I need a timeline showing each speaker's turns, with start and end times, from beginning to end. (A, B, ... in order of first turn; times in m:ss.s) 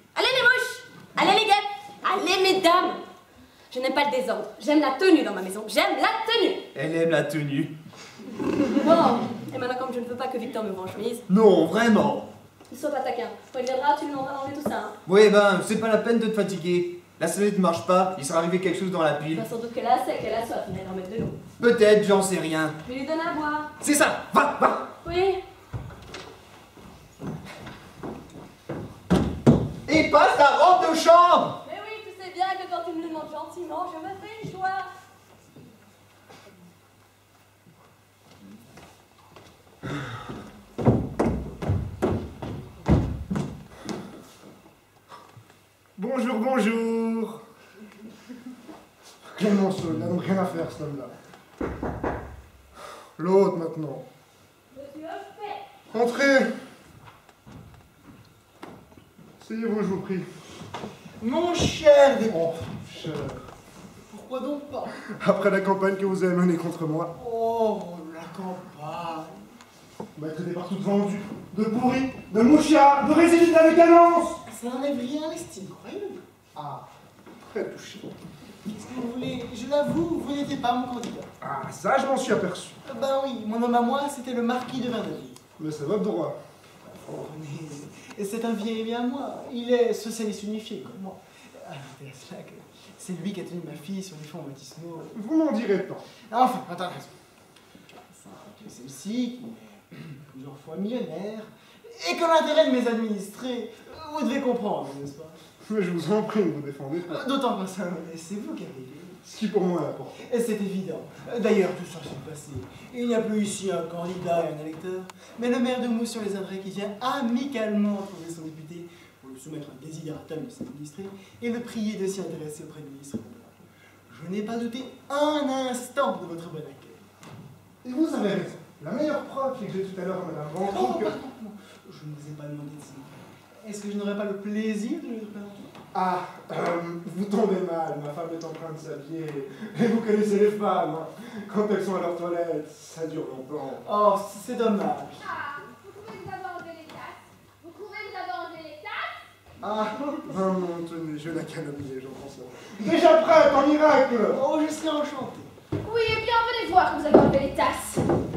0:00.1-0:03.0 A
0:03.7-0:06.7 A
0:06.7-0:07.7 B
0:08.8-0:11.2 A
0:11.3-0:12.3 B
0:12.7-0:14.9 A
0:15.0-0:19.4 B
0:19.3-0:21.4 A
0:21.6-0:22.8 B
0:22.8-0:23.7 A
0:23.8-0:24.9 B
0:25.0-0:25.4 A
0:29.8-0:31.6 B
0:31.6-0:34.9 A
0:46.0-0:47.4 C
0:49.2-0:51.1 C
0:53.2-0:54.0 C
0:54.7-0:55.6 A
0:55.9-0:56.5 C
0:59.4-1:00.3 C
1:01.2-1:02.4 D
1:02.3-1:03.4 C
1:04.1-1:05.0 D
1:05.1-1:07.1 C
1:07.1-1:09.4 D
1:10.2-1:14.4 C
1:14.5-1:16.2 D
1:16.5-1:16.8 C
1:17.4-1:18.1 C
1:18.6-1:21.3 D
1:21.4-1:22.8 C
1:22.8-1:25.4 D
1:25.6-1:26.4 C
1:26.9-1:35.1 D
1:35.1-1:36.1 C
1:36.3-1:37.1 D
1:38.1-1:45.4 D
1:45.6-1:47.2 C
1:47.1-1:49.2 D
1:49.2-1:50.2 C
1:50.2-2:03.5 D
2:04.1-2:07.0 D
2:07.8-2:11.1 C
2:10.6-2:13.1 D
2:13.6-2:15.7 D
2:15.9-2:23.8 C
2:23.8-2:25.2 D
2:25.2-2:29.2 E
2:29.6-2:30.1 D
2:29.6-2:34.4 C
2:34.2-2:35.5 D
2:35.8-2:38.0 E